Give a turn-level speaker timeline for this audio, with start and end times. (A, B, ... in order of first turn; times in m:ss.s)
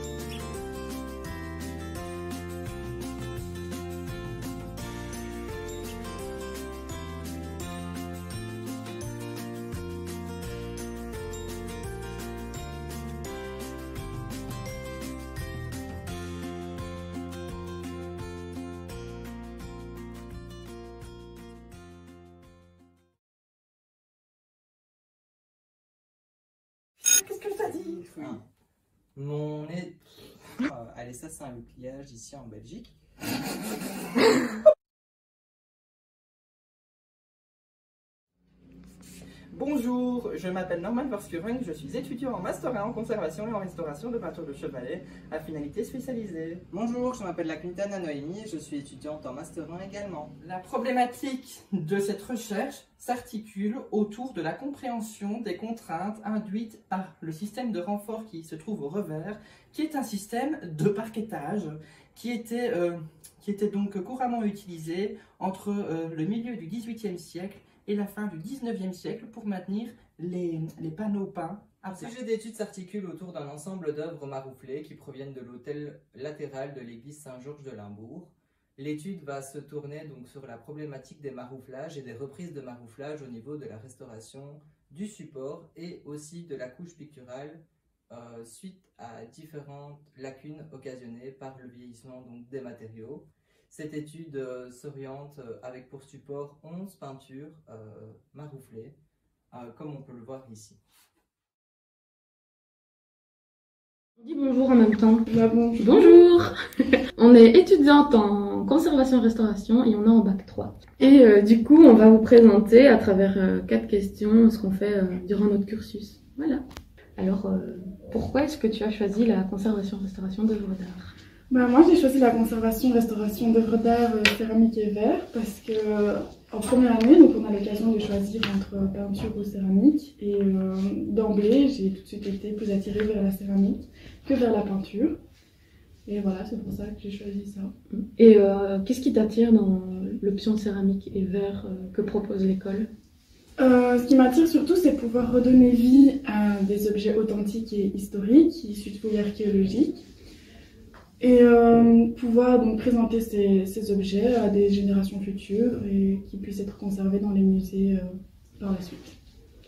0:27.0-0:28.4 A
0:27.7-0:28.4 B
0:29.1-0:30.0 B
0:30.6-0:33.0 B
0:39.5-0:46.6 A
0:47.2-0:47.6 B
0:48.2-0:50.3 B
0:50.4-1:12.2 A
1:11.9-1:39.0 B
1:39.5-1:40.8 B
1:44.2-1:46.6 C
1:45.2-1:46.3 D
1:47.2-1:56.6 C
1:57.2-2:01.1 C
2:01.5-2:15.2 D
2:16.0-2:17.7 D
2:17.9-2:22.9 C
2:23.6-2:30.1 D
2:31.2-2:39.2 D